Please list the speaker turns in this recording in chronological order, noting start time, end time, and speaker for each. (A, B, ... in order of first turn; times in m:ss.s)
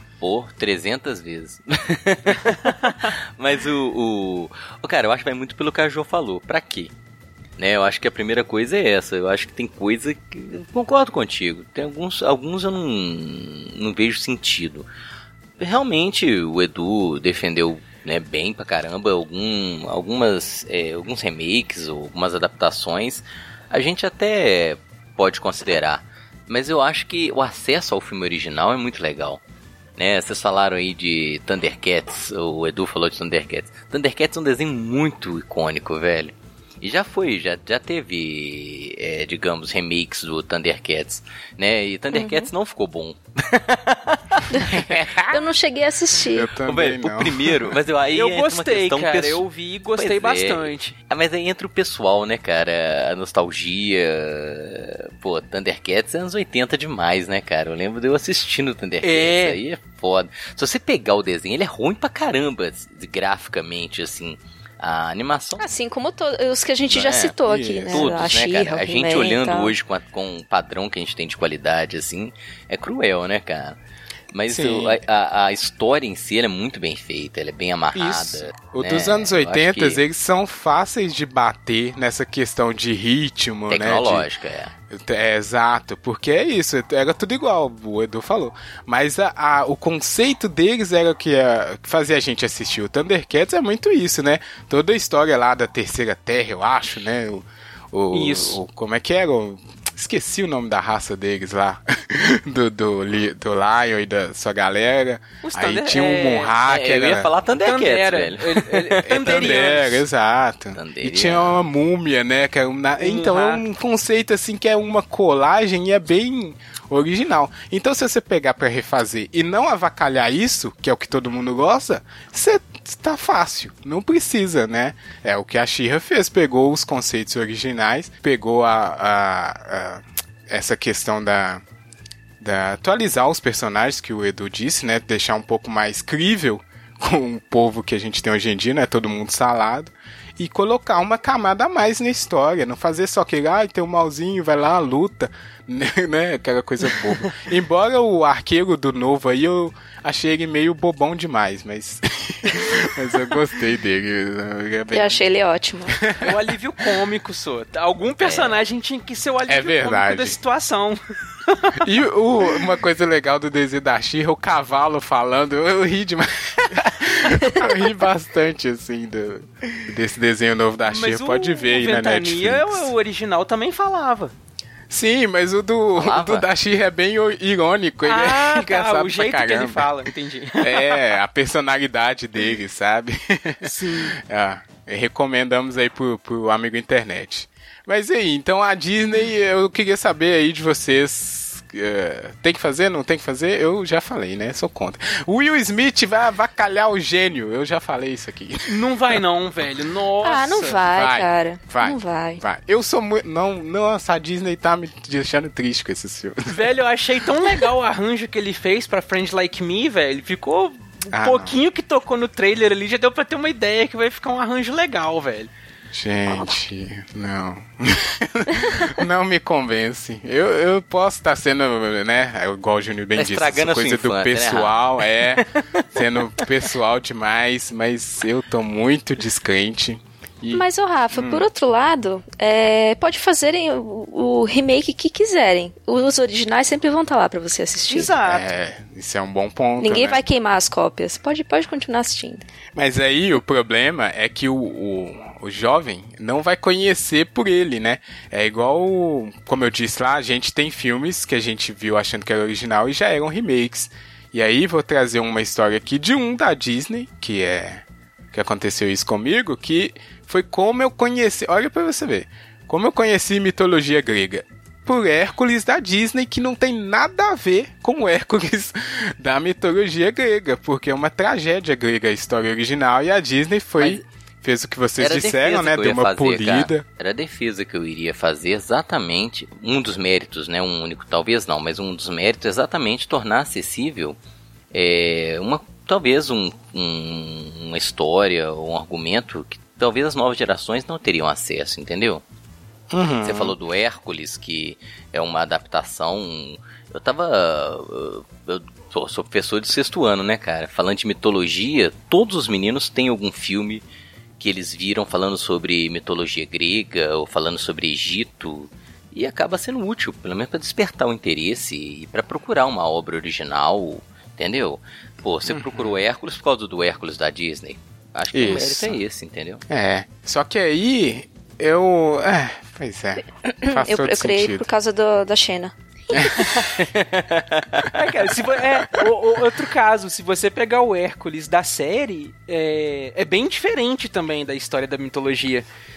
0:00.2-0:06.9 A
0:07.6-0:14.9 A
0:15.6-0:29.4 A
0:30.0-0:45.4 A
0:42.1-0:42.5 B
0:44.5-0:46.5 B
0:46.3-0:47.8 C
0:46.6-0:49.4 A
0:48.1-0:51.0 D
0:50.0-1:05.6 A
0:59.0-0:59.6 D
1:05.6-1:09.7 B
1:06.9-1:07.4 A
1:07.4-1:08.3 C
1:07.9-1:13.8 A
1:14.3-1:20.0 A
1:14.5-1:15.0 C
1:18.0-1:24.2 C
1:23.7-1:24.7 A
1:24.9-1:47.3 C
1:38.1-1:38.6 D
1:45.4-1:46.6 D
1:46.6-1:49.3 A
1:47.6-1:50.0 D
1:49.0-2:11.6 C
1:50.8-1:51.6 A
1:53.0-1:53.6 D
2:12.4-2:35.2 C
2:34.9-2:36.0 B
2:36.0-2:36.3 C
2:36.2-2:41.8 D
2:38.2-2:38.5 A
2:39.5-2:40.4 C
2:41.8-2:52.9 C
2:50.8-2:54.3 D
2:54.9-3:00.0 C
2:56.0-2:56.4 A
2:58.0-3:01.0 D
3:00.6-3:19.2 C
3:03.6-3:04.2 D
3:18.7-3:20.8 D
3:20.2-3:22.4 B
3:20.8-3:26.5 C
3:26.4-3:35.5 D
3:31.1-3:31.6 C
3:35.9-3:51.4 C
3:43.2-3:45.0 A
3:50.5-3:58.1 B
3:57.9-3:58.5 D
3:58.2-4:00.2 C
3:59.8-4:02.4 B
4:02.7-4:36.8 C
4:33.8-4:34.0 A
4:35.0-4:44.2 A
4:44.7-4:52.2 A
4:52.9-4:53.6 C
4:53.2-5:03.8 A
5:04.4-5:19.6 A
5:15.5-5:16.0 C
5:18.3-5:19.0 C
5:19.7-5:24.7 C
5:23.6-5:26.4 B
5:26.1-5:26.6 C
5:26.7-5:27.9 A
5:27.9-5:35.7 D